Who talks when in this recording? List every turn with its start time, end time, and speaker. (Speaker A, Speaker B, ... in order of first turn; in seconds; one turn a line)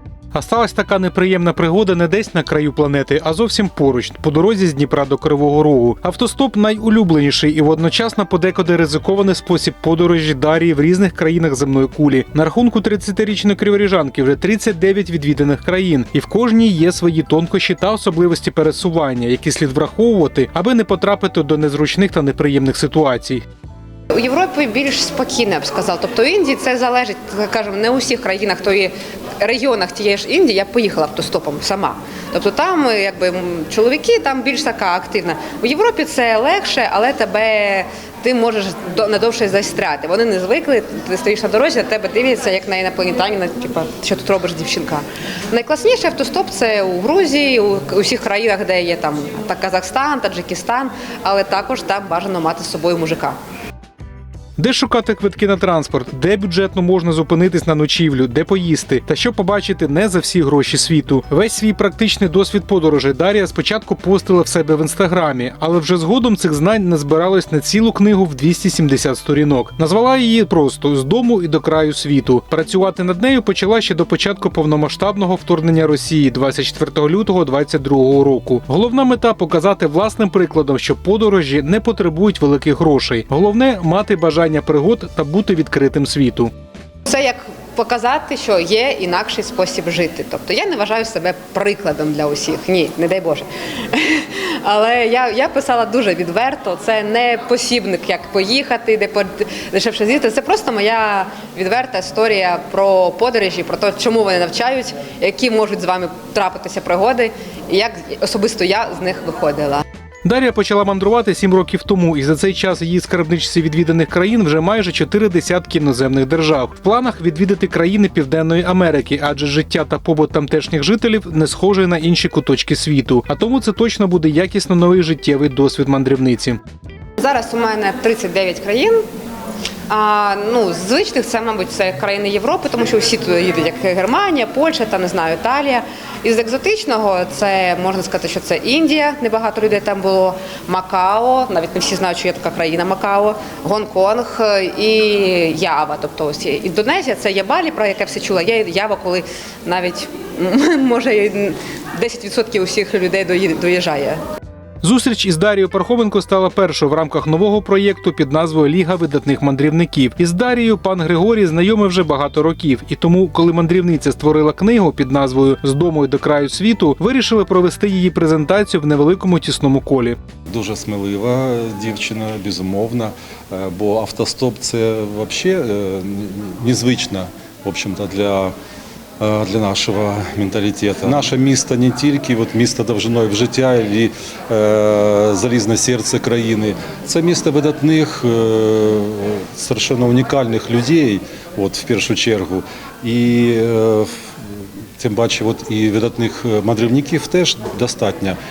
Speaker A: 0.3-23.4
Speaker B: 24.1-53.4
Speaker A: 54.6-86.5
Speaker B: 87.0-109.8
Speaker A: 110.2-126.6
Speaker B: 127.2-129.0
Speaker B: 129.9-154.2
Speaker A: 154.8-170.2
Speaker C: 170.5-178.5
Speaker C: 179.2-194.2
Speaker C: 195.0-198.4